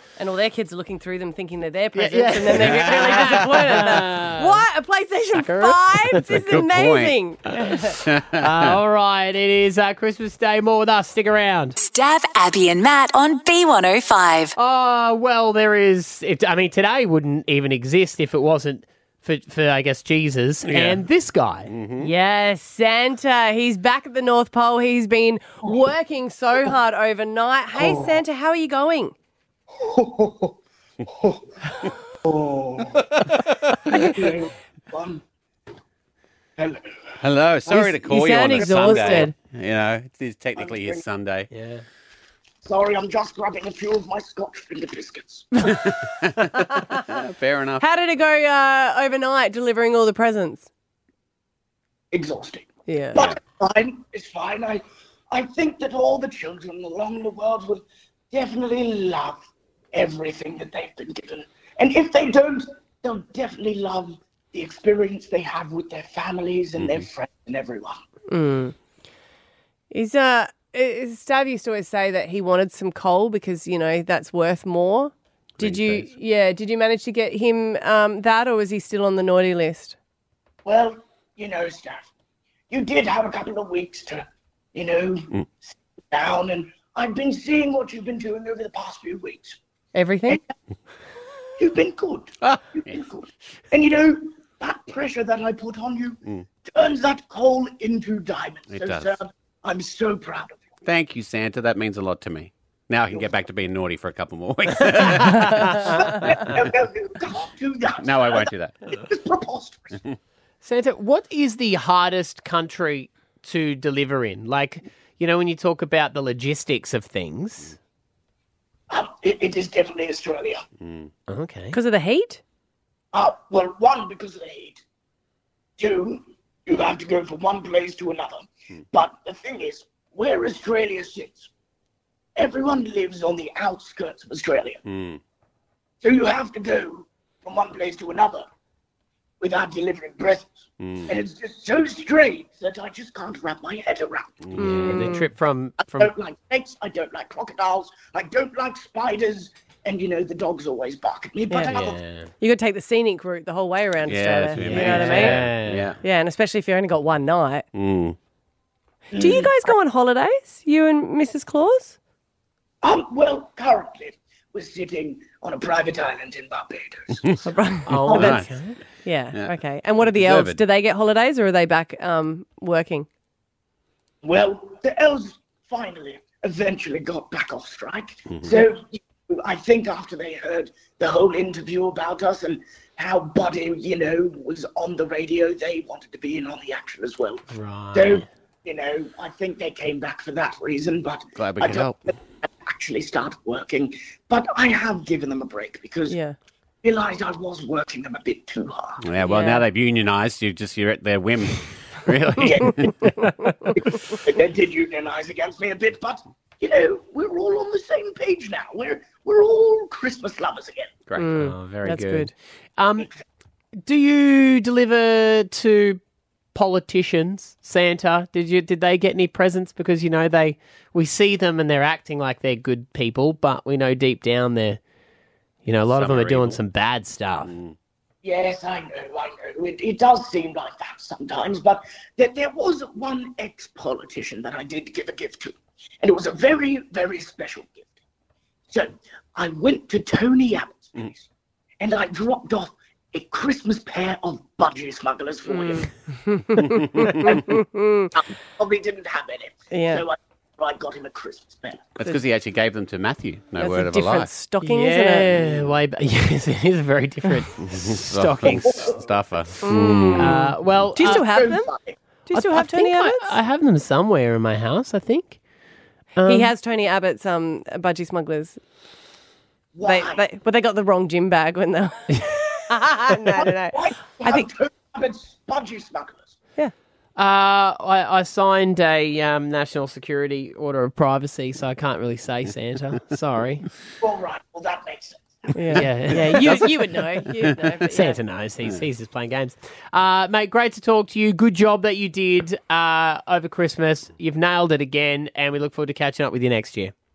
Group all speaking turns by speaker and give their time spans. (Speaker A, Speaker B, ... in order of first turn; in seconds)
Speaker A: 0.2-8.0, 22.0-29.1, 37.7-39.3, 46.7-47.0, 47.8-50.7, 52.9-53.2, 68.3-68.8, 69.9-80.0, 89.9-90.4, 121.7-122.4, 144.6-145.3, 152.4-155.4, 156.0-157.7, 159.2-162.0, 167.5-168.4, 169.0-173.1, 196.1-196.4, 199.2-199.7, 211.2-212.3, 245.5-248.1, 249.7-250.1, 253.6-255.4, 259.6-261.7, 262.3-263.4, 266.2-268.6, 269.8-274.5, 285.6-288.2
Speaker B: 1.9-4.7, 5.3-6.5, 7.6-11.8, 14.6-21.7, 41.5-41.8, 105.0-106.0, 110.6-117.8, 121.3-121.8, 144.6-146.1, 151.6-152.3, 154.6-155.9, 167.9-168.8, 187.5-188.2, 211.4-213.1, 213.8-216.0, 216.5-224.8, 225.7-227.5, 254.6-259.0, 259.6-261.2, 262.3-265.4, 266.2-266.5, 277.2-283.7, 285.7-286.8, 287.9-296.9
Speaker C: 2.5-3.2, 6.3-7.2, 8.1-8.8, 20.7-21.0, 21.7-22.1, 37.2-41.5, 45.7-47.8, 66.8-67.0, 75.6-76.1, 92.4-92.9, 98.7-99.2, 100.8-106.3, 108.0-108.9, 120.8-121.1, 134.9-135.2, 140.8-141.1, 144.4-145.1, 154.1-156.0, 157.7-158.2, 168.1-168.6, 169.3-170.6, 191.4-192.1, 199.0-203.1, 225.9-226.6, 227.4-227.8, 252.0-254.3, 255.3-255.7, 257.6-260.4
Speaker D: 11.8-14.5
Speaker E: 27.8-28.2, 29.8-31.5, 32.2-33.2, 33.8-35.2, 36.6-37.1, 38.5-39.2, 40.6-41.0, 42.6-45.6, 52.1-68.0, 80.7-82.1, 82.7-89.6, 91.6-100.6, 106.0-110.0, 118.9-120.6, 123.1-124.8, 125.8-131.5, 132.4-134.8, 136.0-138.4, 139.4-144.5, 145.9-152.0, 159.1-159.5, 162.8-167.4, 168.1-168.4, 174.2-192.1, 192.6-196.2, 196.8-199.0, 202.4-202.8, 203.8-210.9, 228.2-237.9, 238.7-241.3, 241.8-245.9, 248.2-252.0, 260.9-262.0, 269.8-270.2, 273.7-276.4, 284.0-286.2